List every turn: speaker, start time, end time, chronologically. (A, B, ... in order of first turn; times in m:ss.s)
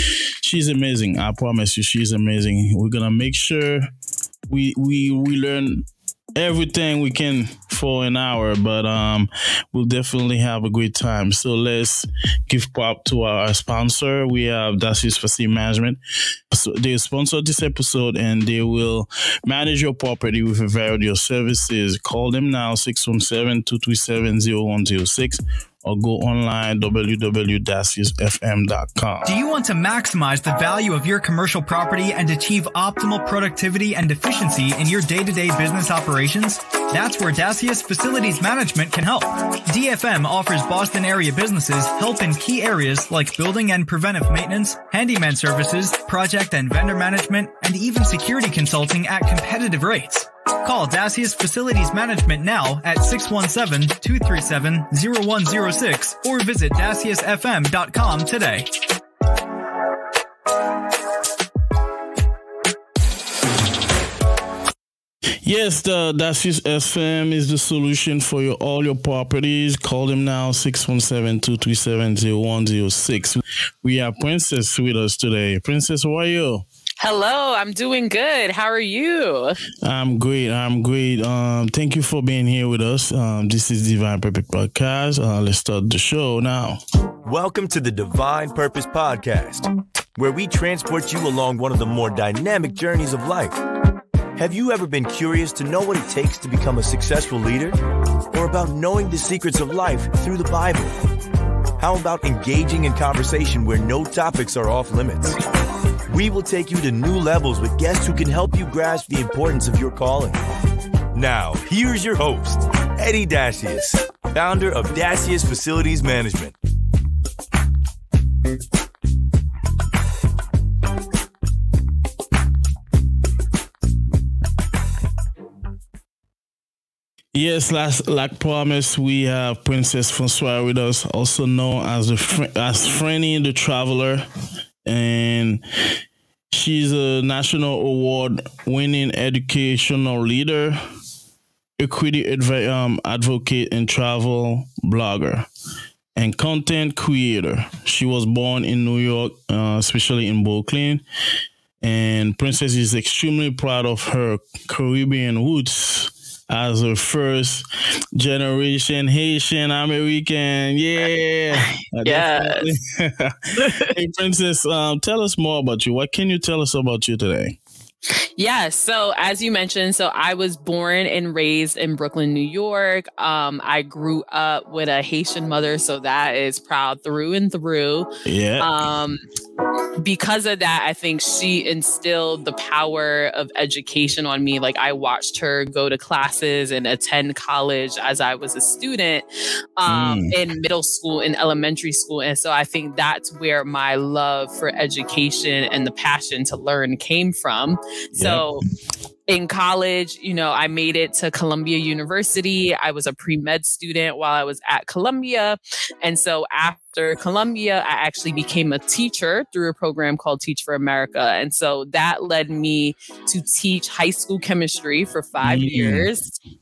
0:00.4-0:03.9 A
0:04.5-0:16.0 A
0:16.5-0:29.3 A
0:29.2-0:58.7 B
1:05.4-1:16.6 A
1:17.0-1:19.6 C
1:19.8-1:26.8 A
1:27.2-1:33.6 D
1:34.4-1:37.8 D
1:38.3-1:41.0 D
1:41.8-1:45.4 D
1:46.1-1:50.4 D
1:51.1-1:56.6 D
2:07.3-2:14.2 A
2:14.8-2:15.6 A
2:16.5-2:20.8 A
2:21.8-2:25.5 A
2:26.2-2:31.0 A
2:31.8-2:47.6 A
2:42.0-2:42.7 C
2:43.6-2:43.9 C
2:48.4-2:58.1 C
2:58.2-2:58.8 A
2:58.6-2:59.2 C
3:00.0-3:09.2 C
3:09.8-3:18.6 C
3:09.9-3:10.4 A
3:18.2-3:18.5 A
3:19.3-3:36.4 C
3:35.4-3:36.1 A